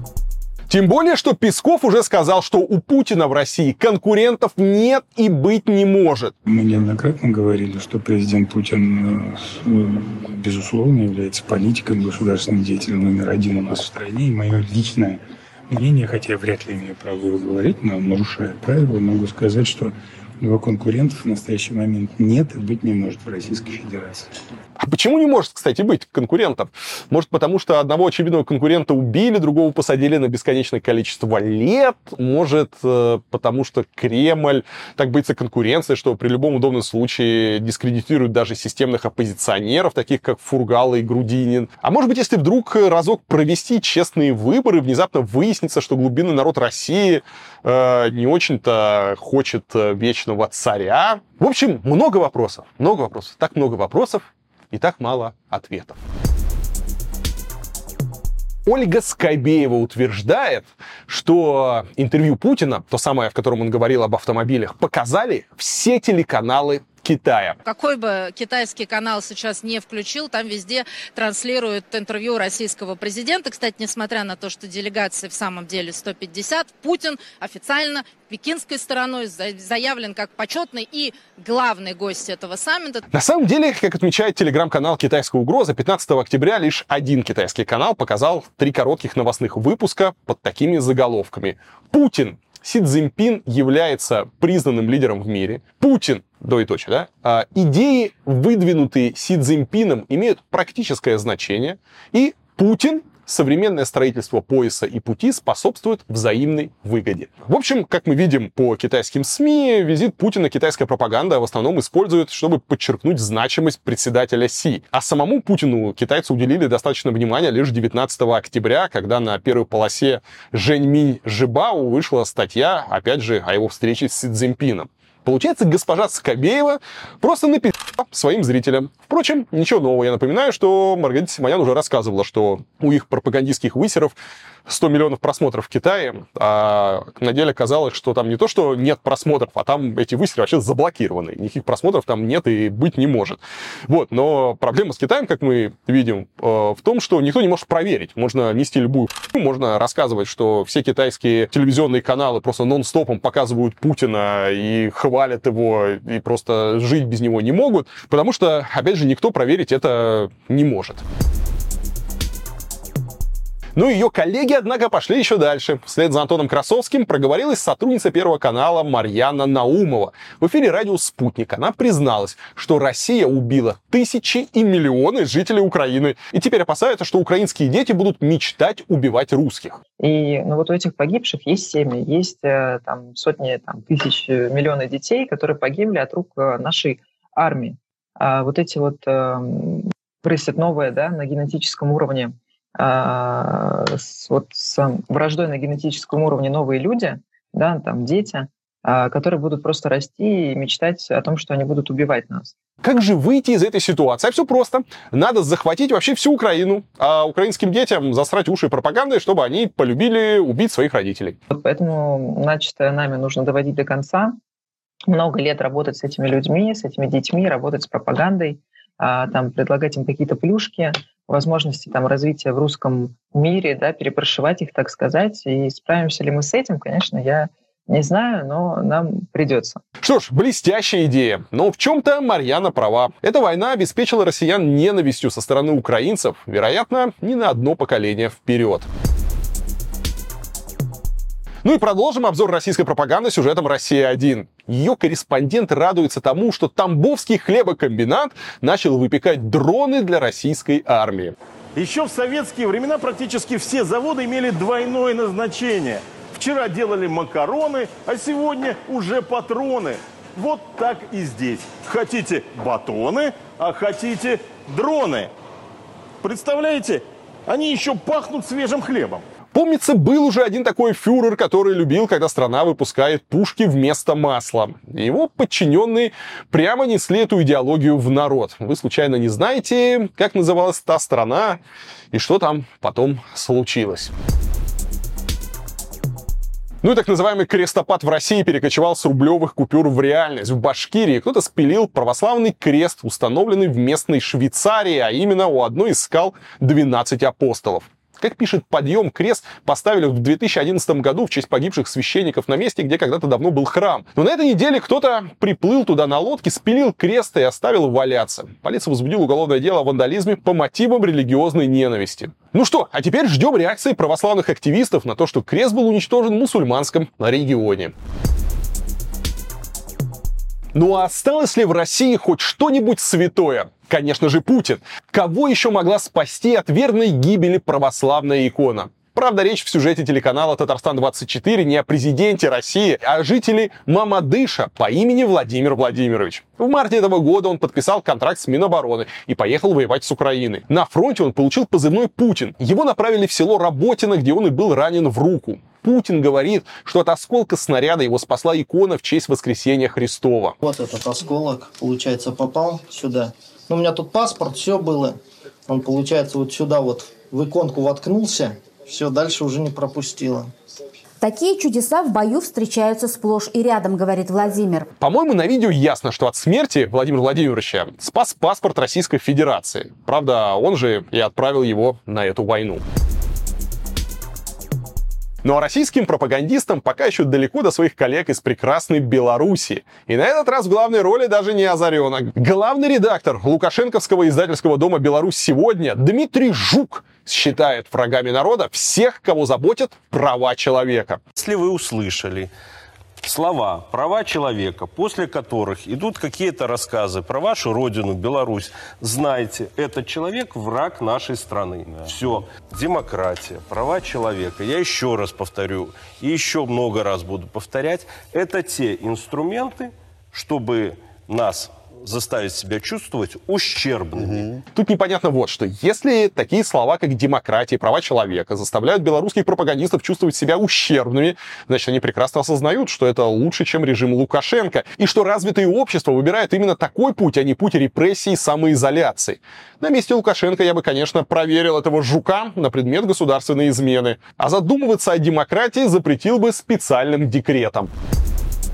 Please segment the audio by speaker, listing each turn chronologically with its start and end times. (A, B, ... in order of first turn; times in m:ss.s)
0:00.7-0:06.3 A
0:06.5-0:15.2 B
0:15.7-0:24.4 B
0:24.8-0:56.0 A
0:58.6-1:07.6 A
1:07.6-1:23.0 C
1:23.1-2:14.2 A
2:14.7-2:41.0 A
2:43.8-2:59.8 A
3:00.0-3:22.5 D
3:22.8-3:31.4 A
3:31.5-3:34.4 D
3:35.1-3:49.8 D
3:50.0-3:58.9 A
4:01.6-4:11.3 A
4:11.8-4:25.3 E
4:26.2-4:29.2 E
4:29.5-4:41.6 A
4:42.1-4:44.1 A
4:46.8-5:17.9 A
5:20.7-5:50.6 A
5:50.6-6:00.5 F
6:01.2-6:04.9 G
6:05.0-6:12.8 A
6:15.4-6:31.2 A
6:31.3-6:32.5 H
6:33.2-6:54.6 H
6:54.7-7:17.9 A